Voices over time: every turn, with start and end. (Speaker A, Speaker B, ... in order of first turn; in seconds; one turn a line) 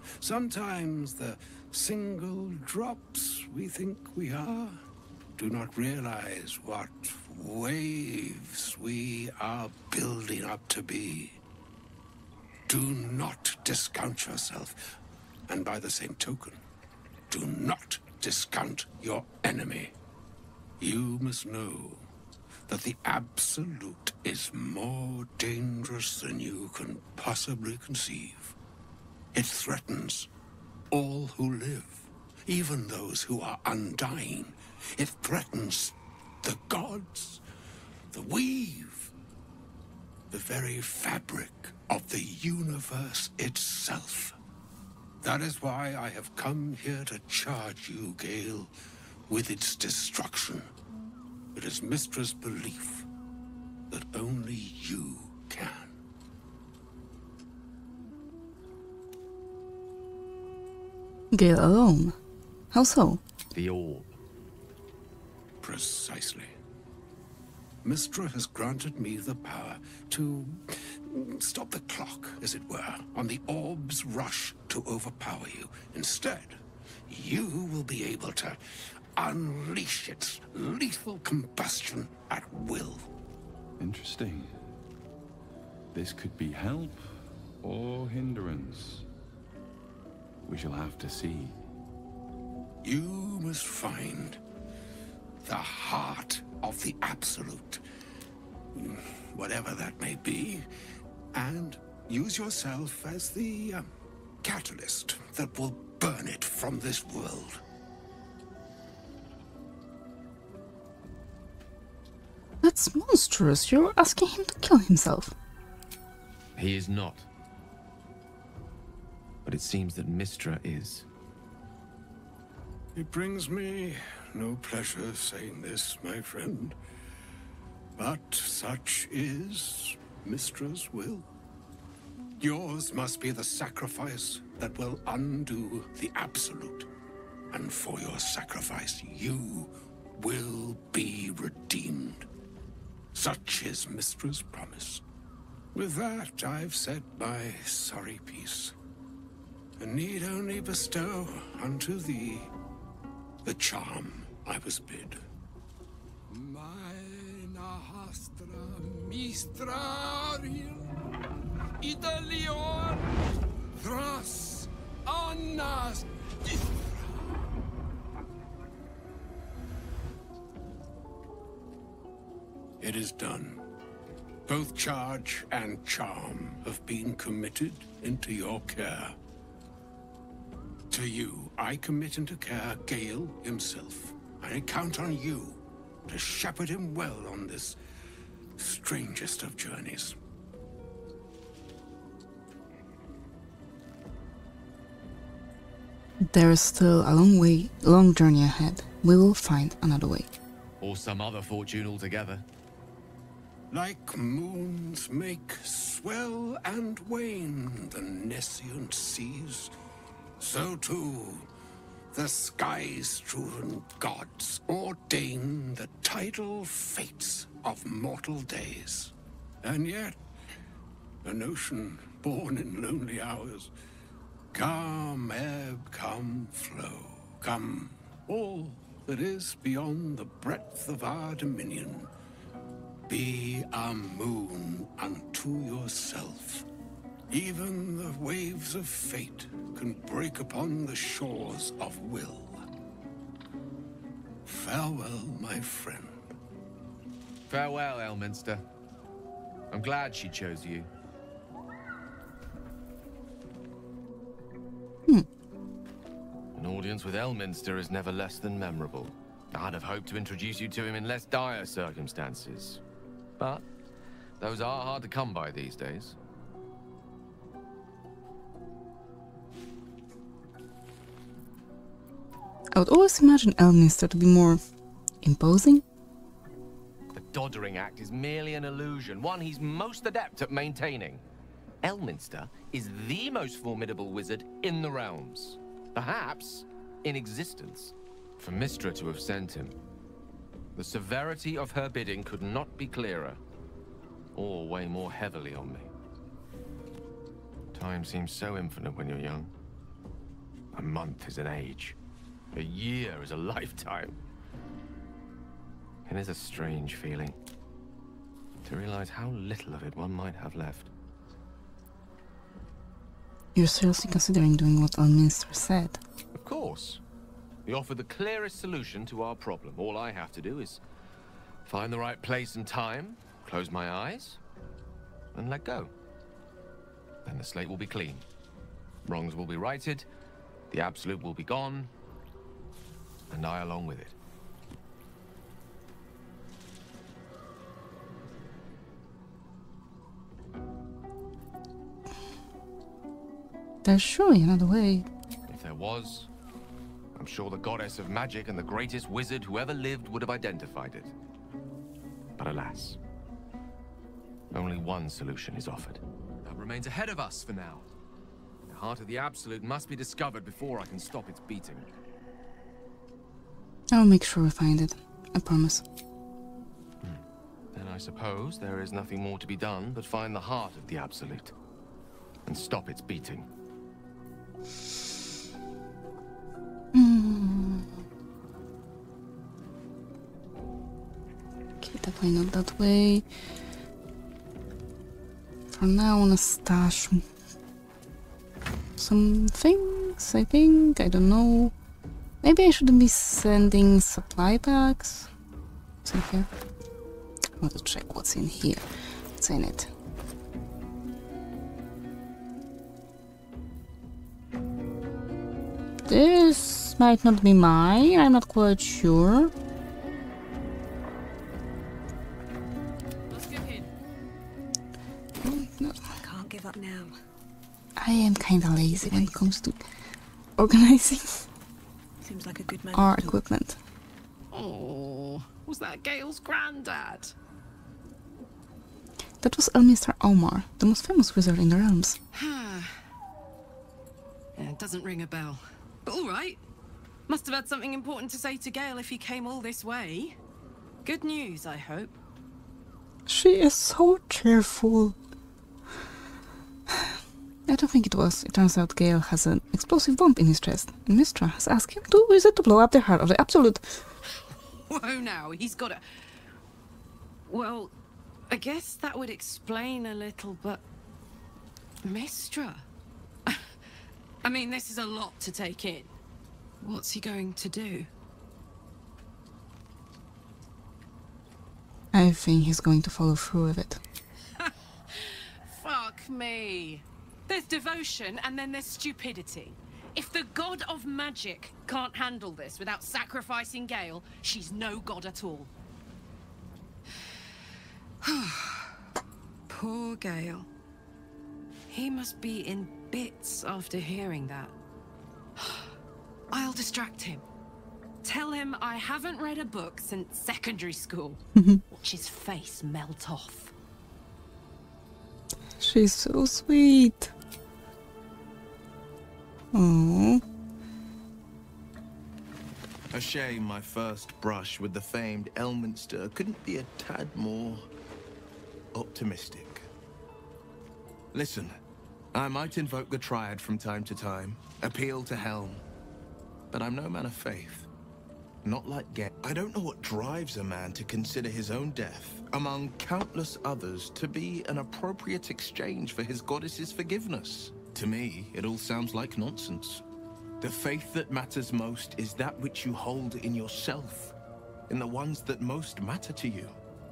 Speaker A: 0.2-4.8
Speaker A: 5.4-11.4
Speaker A: 12.7-14.9
Speaker A: 15.5-16.6
Speaker A: 17.3-19.9
Speaker A: 20.8-22.0
Speaker A: 22.7-28.5
Speaker A: 29.3-30.3
Speaker A: 30.9-37.4
Speaker A: 38.1-39.1
Speaker A: 40.3-44.4
Speaker A: 45.2-48.7
Speaker A: 49.3-50.7
Speaker A: 51.5-53.0
Speaker A: 53.9-55.9
Speaker B: 61.3-62.1
Speaker B: 62.7-63.2
Speaker C: 63.5-64.2
Speaker A: 65.6-66.5
Speaker A: 67.8-76.6
Speaker A: 77.1-78.6
Speaker A: 79.2-83.1
Speaker D: 83.8-84.6
Speaker D: 85.9-87.1
Speaker D: 87.6-89.0
Speaker D: 90.4-91.5
Speaker A: 92.8-94.4
Speaker A: 95.4-97.8
Speaker A: 98.7-100.6
Speaker A: 101.3-103.9
Speaker A: 104.4-107.6
Speaker B: 112.6-115.3
Speaker C: 116.5-117.3
Speaker C: 119.4-121.0
Speaker A: 122.9-126.8
Speaker A: 128.0-131.3
Speaker A: 132.4-136.9
Speaker A: 137.5-142.2
Speaker A: 143.1-145.0
Speaker A: 145.7-148.7
Speaker A: 149.8-152.5
Speaker A: 153.4-155.2
Speaker A: 156.3-161.1
Speaker A: 161.8-163.2
Speaker A: 163.7-167.2
Speaker A: 172.8-173.6
Speaker A: 174.4-179.2
Speaker A: 180.9-187.8
Speaker A: 188.6-190.2
Speaker B: 196.3-200.4
Speaker C: 200.8-202.4
Speaker A: 203.7-209.8
Speaker A: 210.4-211.5
Speaker A: 212.1-220.2
Speaker A: 221.2-223.7
Speaker A: 224.5-232.1
Speaker A: 233.1-236.7
Speaker A: 237.3-242.6
Speaker A: 244.5-246.2
Speaker C: 247.5-248.6
Speaker C: 249.7-250.9
Speaker C: 256.5-262.8
Speaker C: 263.4-263.6
Speaker C: 264.4-266.1
Speaker B: 272.7-274.6
Speaker B: 275.2-275.8
Speaker C: 277.1-281.2
Speaker C: 281.8-289.7
Speaker C: 290.7-293.4
Speaker C: 294.3-295.9
Speaker C: 297.7-299.5
Speaker C: 300.7-302.0
Speaker C: 302.5-304.1
Speaker C: 306.1-307.4
Speaker C: 308.6-310.9
Speaker B: 313.5-316.0
Speaker C: 316.3-317.0
Speaker C: 317.6-320.8
Speaker C: 321.6-324.4
Speaker C: 325.3-325.9
Speaker C: 327.2-328.2
Speaker C: 329.0-330.1
Speaker C: 330.7-331.9
Speaker C: 333.3-334.1
Speaker B: 343.8-345.1
Speaker C: 345.5-346.3
Speaker C: 347.1-351.1
Speaker C: 352.4-353.0
Speaker C: 354.5-357.9
Speaker C: 358.7-361.9
Speaker B: 363.9-365.8
Speaker C: 367.0-371.5
Speaker C: 372.4-373.5
Speaker B: 376.9-377.9
Speaker B: 381.8-383.2
Speaker B: 385.7-387.2
Speaker B: 389.0-391.7
Speaker B: 392.4-395.3
Speaker B: 396.0-396.5
Speaker B: 397.6-398.9
Speaker B: 399.4-399.9
Speaker B: 406.1-409.5
Speaker E: 413.3-413.9
Speaker B: 415.4-416.0
Speaker F: 416.2-417.1
Speaker B: 418.0-419.8
Speaker F: 419.1-419.4
Speaker B: 420.6-421.4
Speaker F: 422.2-423.4
Speaker B: 422.9-423.8
Speaker E: 424.5-427.3
Speaker B: 429.4-432.2
Speaker E: 432.3-433.0
Speaker E: 434.5-436.6
Speaker E: 437.3-440.4
Speaker E: 441.0-442.2
Speaker B: 443.3-445.1
Speaker B: 447.7-454.0
Speaker E: 454.5-456.0
Speaker E: 457.4-457.9
Speaker E: 458.5-460.8
Speaker E: 462.0-462.8
Speaker E: 463.4-463.7
Speaker E: 464.4-466.1
Speaker E: 466.8-468.1
Speaker B: 472.1-474.0
Speaker E: 474.6-485.7
Speaker E: 488.2-489.0
Speaker E: 489.7-490.7
Speaker E: 491.9-494.7
Speaker E: 495.6-495.9
Speaker E: 496.5-497.4
Speaker E: 498.2-503.7
Speaker B: 501.6-501.8
Speaker B: 505.8-507.3
Speaker B: 509.7-510.4
Speaker G: 513.1-517.9
Speaker G: 518.9-519.9
Speaker G: 521.3-521.8
Speaker G: 522.3-525.8
Speaker G: 526.7-527.9
Speaker G: 528.6-540.0
Speaker G: 540.6-544.3
Speaker G: 544.9-546.8